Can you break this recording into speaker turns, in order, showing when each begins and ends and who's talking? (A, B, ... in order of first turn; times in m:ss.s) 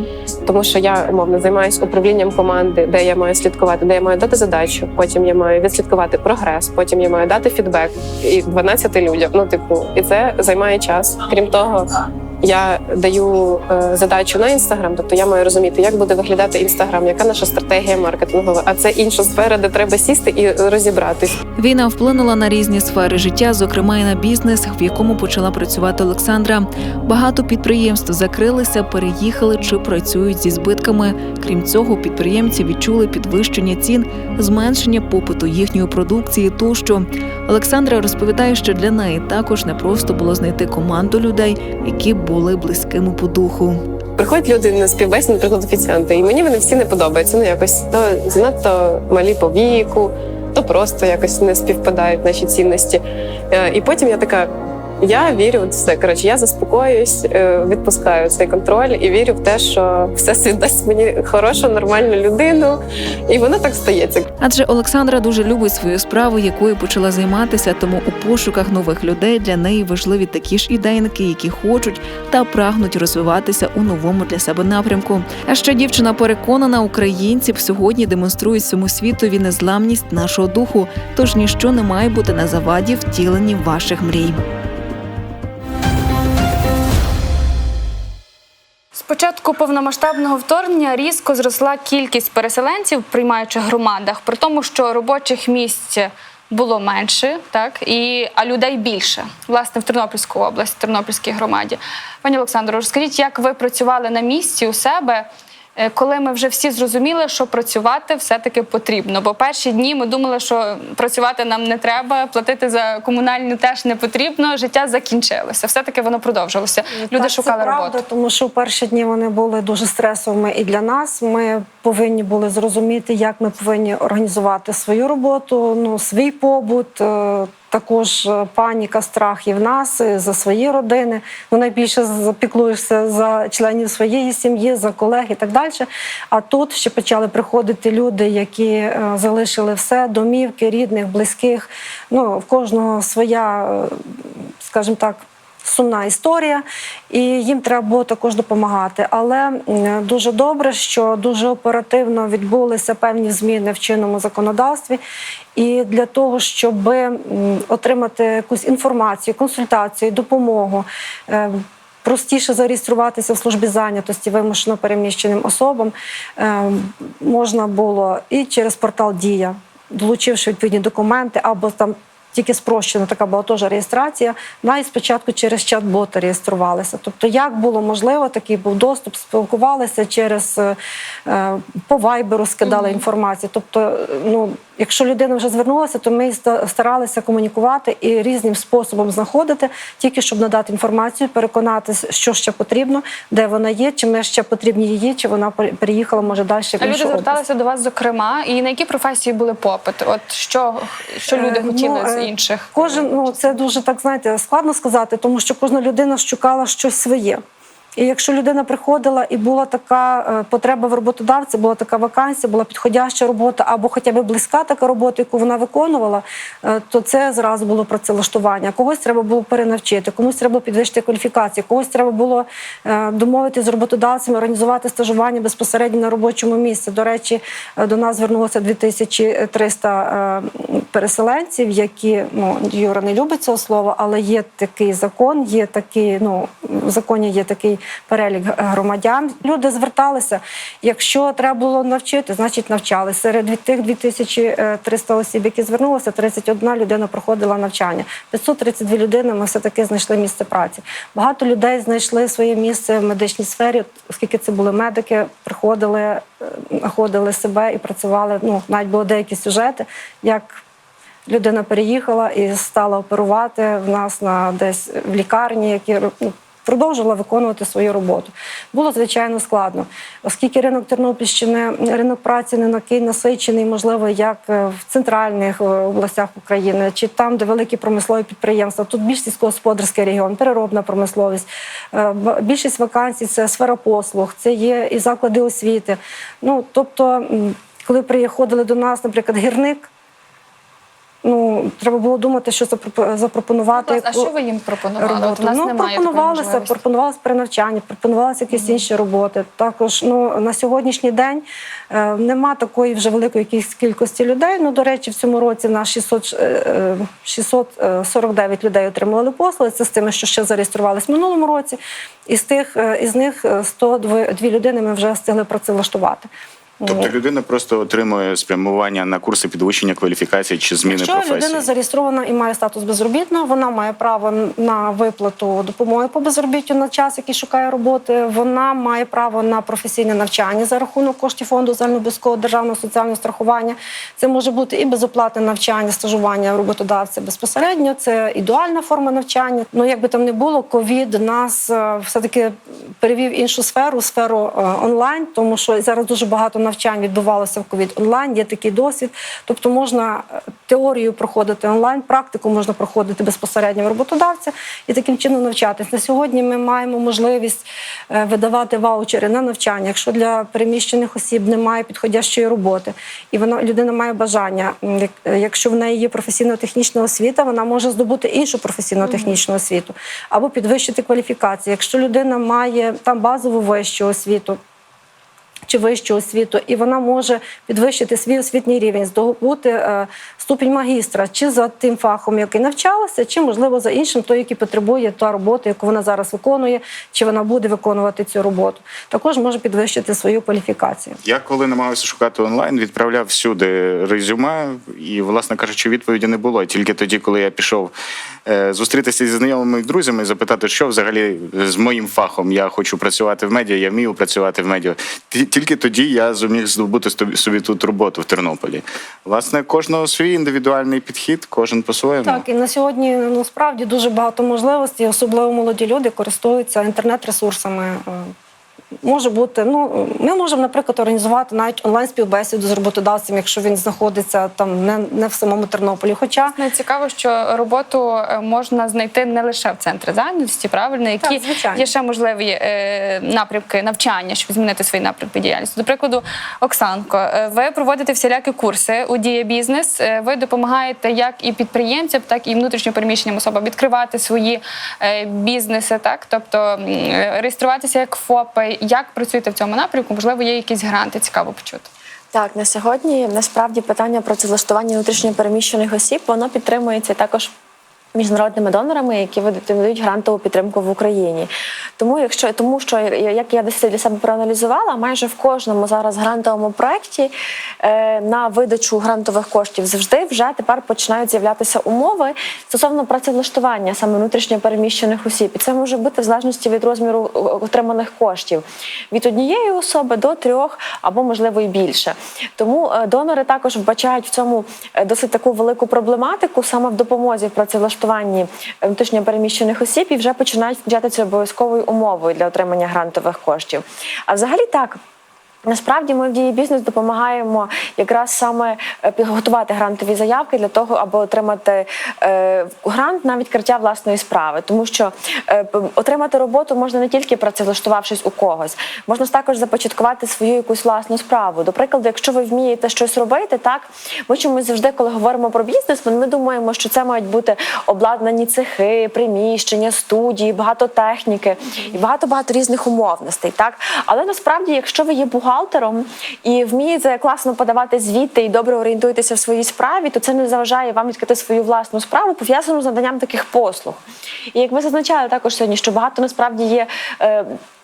0:00.4-0:21.4 A
0:21.6-0:43.8 B
0:44.2-1:04.3 A
1:04.4-1:24.4 B
1:28.9-1:58.0 C
1:56.9-2:35.0 D
2:35.5-3:17.4 D
3:02.7-3:03.0 C
3:16.8-3:23.5 C
3:21.3-3:27.4 D
3:28.0-4:20.6 D
4:21.3-4:49.9 D
4:51.2-4:54.3 D
4:53.7-4:56.8 C
4:55.0-5:16.3 D
4:58.5-4:58.8 C
5:16.8-5:17.1 D
5:16.8-5:21.6 E
5:20.8-6:14.6 D
6:15.7-6:31.2 D
6:31.2-6:37.9 E
6:38.4-6:52.4 E
6:52.2-6:58.3 D
6:59.0-7:06.6 D
7:06.5-7:31.9 C
7:11.2-7:11.9 D
7:32.3-7:37.5 F
7:38.1-7:47.3 F
7:47.8-8:15.0 F
8:15.6-8:54.0 F
8:54.5-8:57.6 F